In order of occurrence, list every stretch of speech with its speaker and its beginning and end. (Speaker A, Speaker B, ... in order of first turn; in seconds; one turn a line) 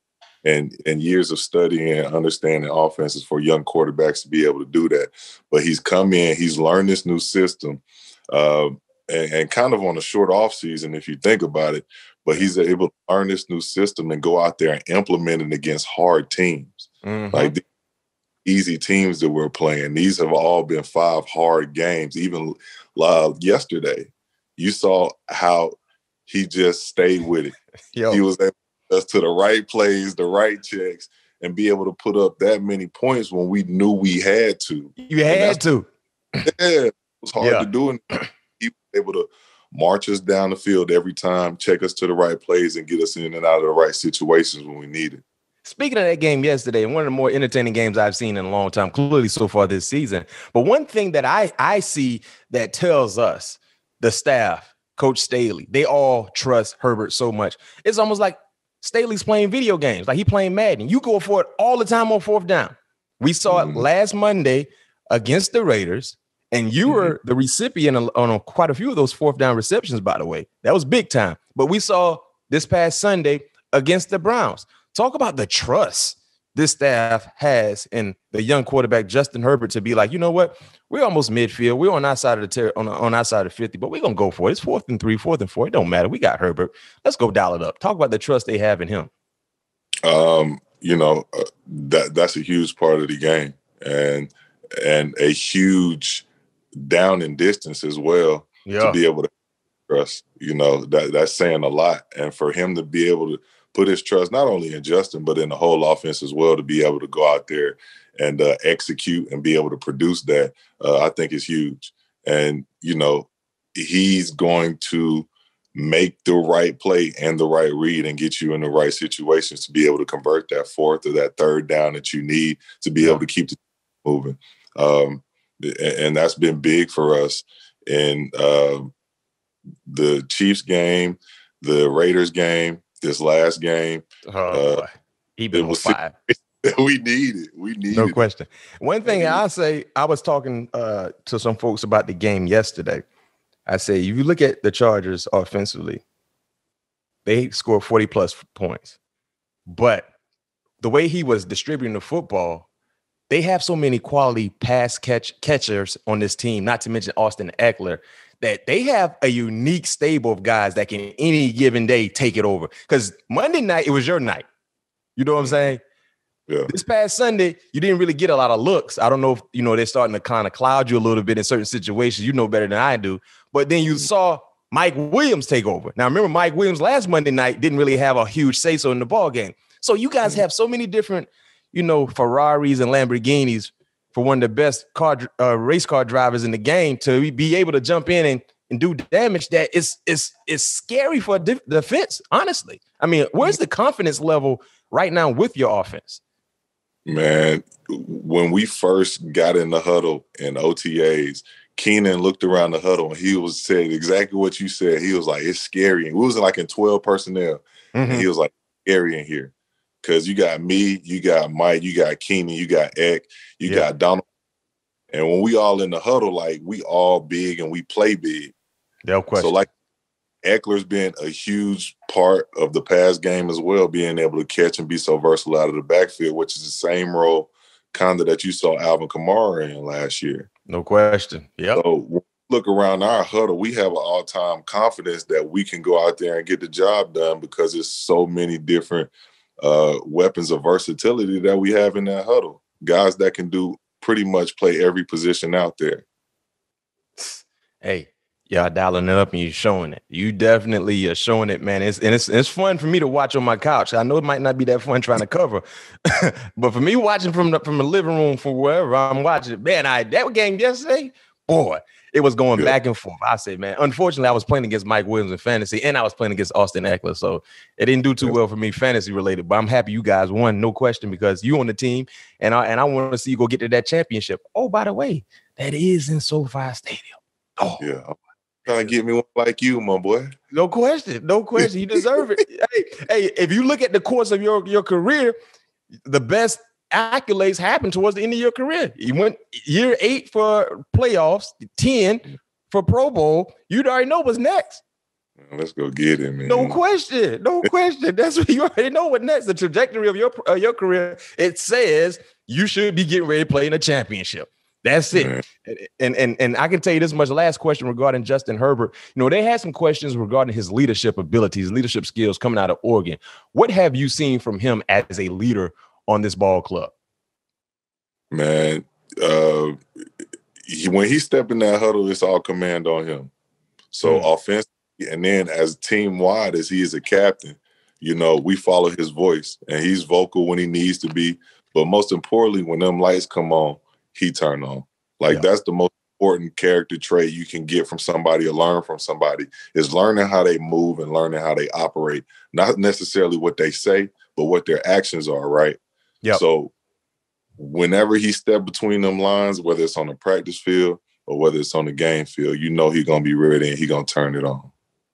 Speaker A: 0.4-17.6
Speaker B: 17.0-17.5
Speaker A: 18.4-25.8
Speaker A: 26.3-27.5
Speaker B: 27.9-28.2
Speaker A: 28.1-35.6
Speaker B: 35.0-35.9
Speaker A: 36.4-45.2
Speaker B: 37.4-37.7
Speaker B: 45.6-89.1
Speaker A: 63.5-63.9
Speaker A: 66.8-67.2
Speaker A: 90.0-96.2
Speaker A: 96.8-99.3
Speaker B: 98.7-99.0
Speaker A: 99.9-128.9
Speaker A: 129.9-134.8
Speaker B: 134.3-136.1
Speaker A: 135.5-138.2
Speaker B: 137.9-143.0
Speaker A: 139.0-139.4
Speaker B: 143.7-146.0
Speaker B: 147.2-148.9
Speaker B: 149.7-150.1
Speaker B: 150.8-152.7
Speaker B: 153.3-164.4
Speaker B: 165.2-165.8
Speaker A: 165.4-165.7
Speaker B: 166.7-196.2
Speaker A: 197.1-214.2
Speaker B: 207.9-208.3
Speaker A: 215.1-218.5
Speaker B: 219.1-219.6
Speaker A: 219.3-219.7
Speaker A: 220.4-230.5
Speaker B: 230.7-231.8
Speaker A: 231.7-246.0
Speaker B: 247.2-277.8
Speaker A: 277.8-280.3
Speaker B: 280.5-285.3
Speaker B: 286.1-294.8
Speaker A: 295.4-296.8
Speaker B: 296.4-316.9
Speaker A: 305.1-305.4
Speaker A: 318.3-319.8
Speaker A: 320.6-323.3
Speaker A: 323.9-345.8
Speaker B: 324.0-324.3
Speaker A: 346.3-346.7
Speaker A: 347.6-354.7